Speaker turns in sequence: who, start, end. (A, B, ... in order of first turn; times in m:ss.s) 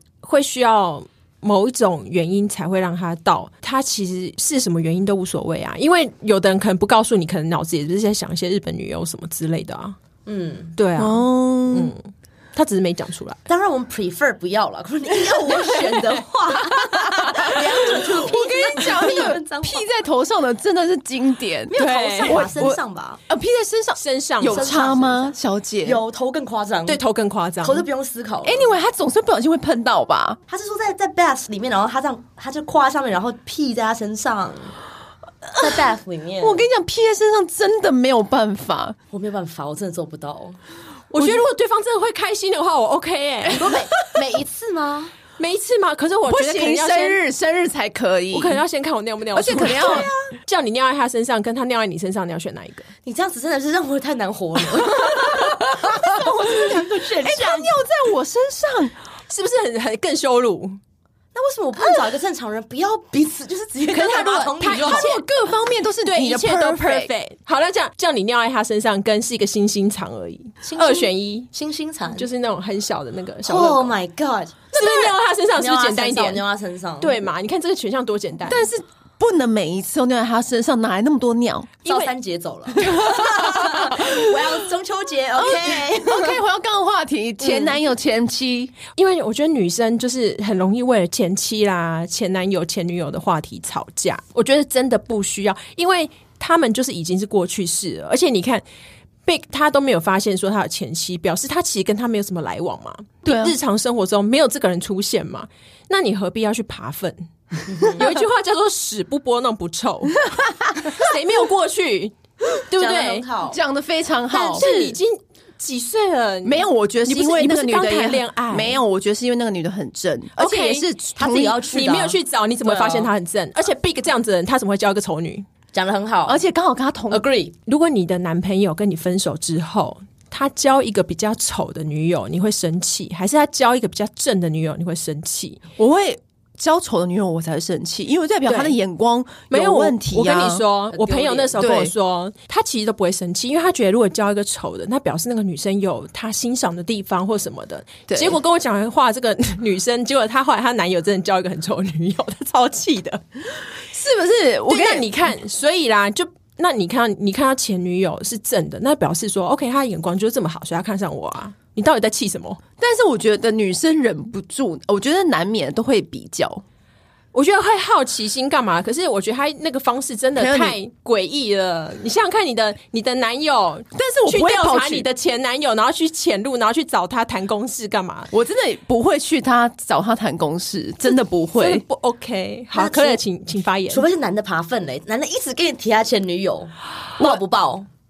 0:00.2-0:10.0 A
0:10.3-0:10.8 B
0:10.8-0:13.4 A
0:11.0-0:11.9 C
0:13.5-0:19.9 B
0:15.2-0:26.0 C
0:21.7-0:23.2 B
0:21.7-0:22.4 A
0:24.0-0:24.7 A
0:24.4-0:27.0 B
0:26.9-0:27.8 A
0:27.6-0:28.8 B
0:28.4-0:30.4 C
0:30.5-0:34.8 B
0:35.6-0:36.7 B
0:35.6-0:35.9 C
0:36.4-0:39.0 C
0:39.1-0:40.6 B
0:41.1-0:43.7 A
0:41.2-0:41.4 C
0:43.6-0:45.2 B
0:45.4-0:47.2 A
0:46.3-0:48.6 C
0:48.3-0:52.9 A
0:49.4-0:50.1 C
0:49.6-0:50.3 B
0:53.0-0:57.8 B
0:55.3-0:59.0 C
0:59.3-1:00.8 A
1:01.3-1:05.2 B
1:03.9-1:07.1 C
1:04.0-1:05.3 A
1:06.0-1:11.5 A
1:10.6-1:12.3 B
1:12.1-1:13.9 A
1:13.4-1:15.0 B
1:14.7-1:16.4 A
1:14.8-1:15.1 C
1:15.6-1:17.2 B
1:17.0-1:18.7 A
1:18.5-1:21.9 C
1:21.8-1:26.4 B
1:22.8-1:24.5 C
1:25.4-1:28.8 C
1:27.4-1:27.8 A
1:29.0-1:38.6 A
1:39.3-1:50.2 A
1:43.2-1:43.6 C
1:50.4-1:51.0 C
1:50.8-1:52.2 A
1:52.7-1:53.3 A
1:52.8-1:53.6 B
1:53.4-1:55.0 C
1:54.3-1:58.8 A
1:56.4-2:01.6 C
2:00.4-2:00.9 A
2:01.2-2:03.1 B
2:01.7-2:05.5 A
2:05.7-2:06.4 B
2:06.3-2:07.2 C
2:07.1-2:07.6 B
2:07.7-2:15.6 A
2:15.8-2:20.6 C
2:18.5-2:18.8 A
2:19.5-2:33.2 A
2:20.9-2:21.6 B
2:21.6-2:21.9 C
2:28.1-2:28.4 C
2:33.9-2:35.1 C
2:34.7-2:42.6 A
2:42.8-2:46.6 C
2:47.3-2:58.3 A
2:50.4-2:50.8 C
2:53.9-2:55.1 C
2:58.3-3:01.8 C
3:01.6-3:04.1 A
3:02.7-3:03.2 B
3:03.9-3:07.9 B